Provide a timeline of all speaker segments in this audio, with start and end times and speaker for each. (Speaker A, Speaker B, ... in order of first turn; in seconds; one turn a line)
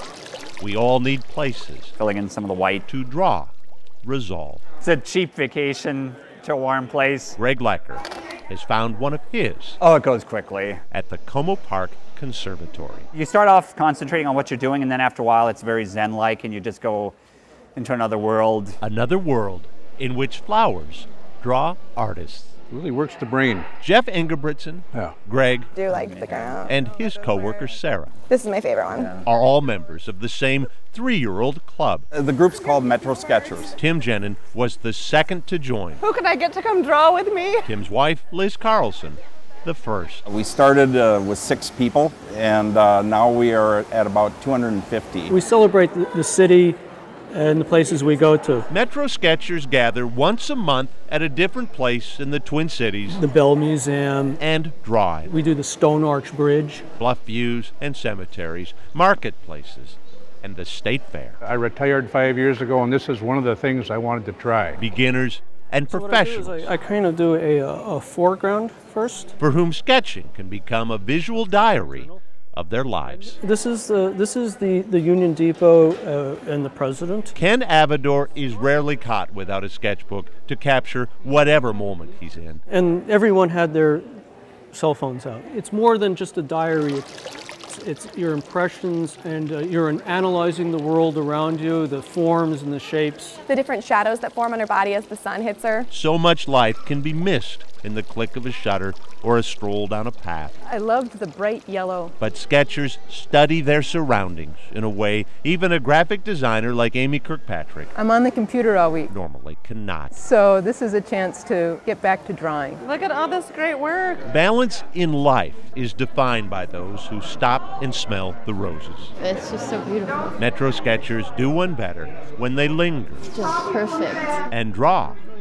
Speaker A: 0.6-1.9
Speaker B: 2.0-2.9
Speaker A: 2.9-3.5
Speaker A: 4.0-4.6
Speaker B: 4.8-7.4
Speaker A: 7.3-9.8
Speaker B: 9.8-10.8
Speaker A: 10.9-13.1
Speaker B: 13.1-17.1
Speaker B: 17.8-18.8
Speaker A: 18.8-22.5
Speaker C: 22.7-23.7
Speaker A: 23.8-25.8
Speaker D: 25.8-26.7
Speaker B: 26.1-26.5
Speaker A: 26.7-28.1
Speaker D: 28.3-29.1
Speaker A: 29.2-32.1
Speaker E: 32.1-33.8
Speaker A: 33.8-36.0
Speaker F: 36.0-37.7
Speaker A: 37.6-40.2
Speaker E: 40.3-45.4
Speaker G: 45.3-46.8
Speaker G: 47.3-48.7
Speaker A: 48.7-53.2
Speaker G: 53.1-54.4
Speaker A: 54.4-55.3
Speaker G: 55.2-56.9
Speaker A: 57.0-61.4
Speaker C: 61.4-64.8
Speaker A: 64.8-66.7
Speaker G: 65.9-69.3
Speaker A: 69.4-73.4
Speaker G: 71.4-72.2
Speaker G: 73.1-77.3
Speaker A: 77.3-82.6
Speaker G: 82.7-87.1
Speaker G: 87.7-93.4
Speaker D: 93.5-95.9
Speaker A: 95.9-100.6
Speaker H: 100.7-102.1
Speaker D: 100.9-102.1
Speaker A: 102.2-107.9
Speaker H: 108.0-109.1
Speaker D: 108.2-108.9
Speaker A: 109.1-110.2
Speaker H: 110.2-112.8
Speaker D: 111.4-112.5
Speaker F: 112.9-114.2
Speaker A: 114.3-119.1
Speaker I: 119.2-120.3
Speaker A: 120.4-123.3
Speaker I: 123.3-124.4
Speaker A: 124.5-125.2